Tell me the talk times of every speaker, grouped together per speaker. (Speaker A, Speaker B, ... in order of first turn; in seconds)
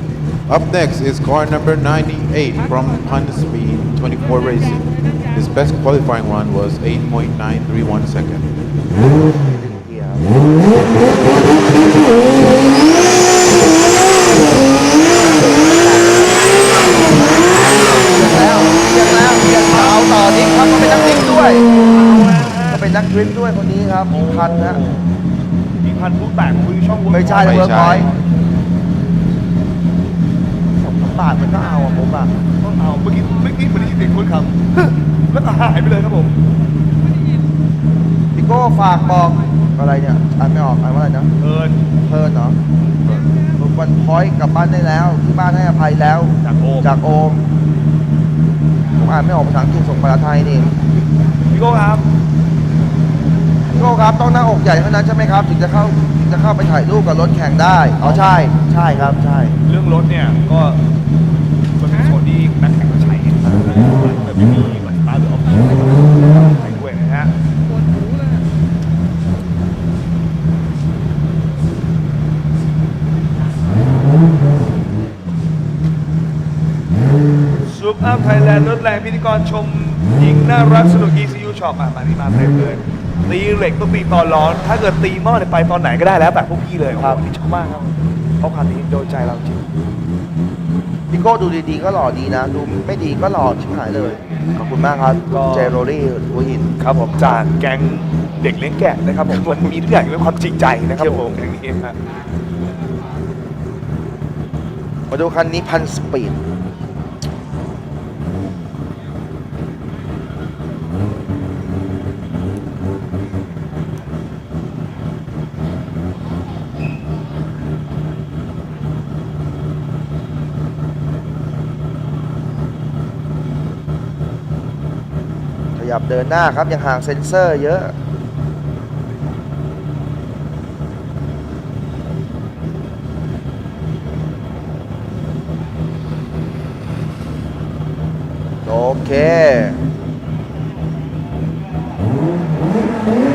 Speaker A: 0.5-8.5, 27.4-28.1
Speaker B: 9.4-10.3, 15.2-21.7, 22.7-24.8, 27.1-28.1, 30.8-32.3, 38.3-41.3, 42.1-42.6, 43.6-47.4, 49.0-50.8, 53.7-59.6, 91.1-96.7, 101.0-101.2, 105.1-106.4, 125.8-127.9, 138.7-139.8
Speaker C: 19.7-20.0, 21.9-22.8, 24.1-25.0, 25.8-27.9, 32.6-36.3, 41.4-41.8, 46.4-46.9, 51.5-52.0, 59.7-60.8, 61.8-67.3, 77.7-89.7, 95.3-95.8, 96.8-102.0